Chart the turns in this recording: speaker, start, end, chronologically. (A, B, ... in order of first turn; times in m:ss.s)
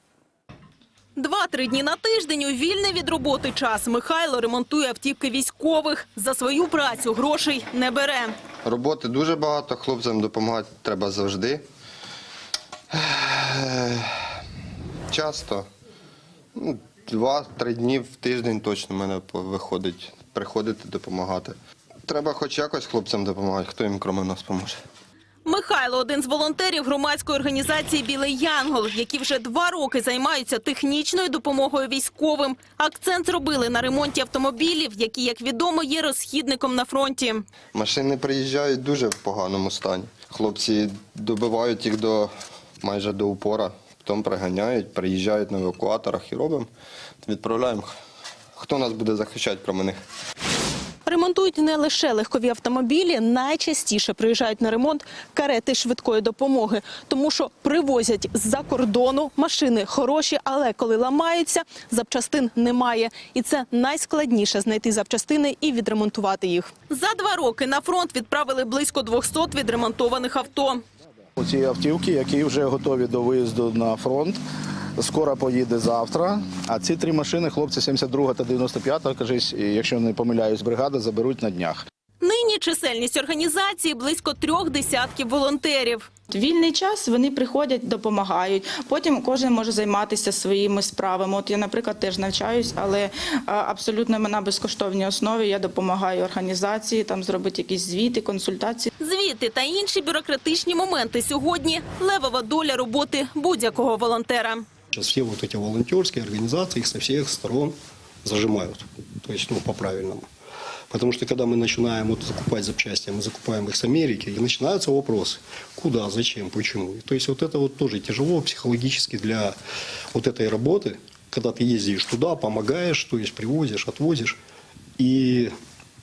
0:01.2-0:08.3 A
0:08.6-0:11.6 B
0:12.9-0:14.2 B
0:15.1-0:15.7 B
0:16.6-0:24.8 B
0:25.4-0:37.4 A
0:37.7-0:46.7 B
0:47.2-0:47.9 B
0:48.6-0:50.0 B
0:51.1-1:10.8 A
1:11.4-1:14.4 C
1:15.0-1:21.8 C
1:22.2-1:26.1 A
1:26.3-1:38.9 D
1:39.0-1:44.6 A
1:44.9-1:50.3 E
1:50.9-1:59.6 E
2:00.1-2:04.4 E
2:05.0-2:05.6 E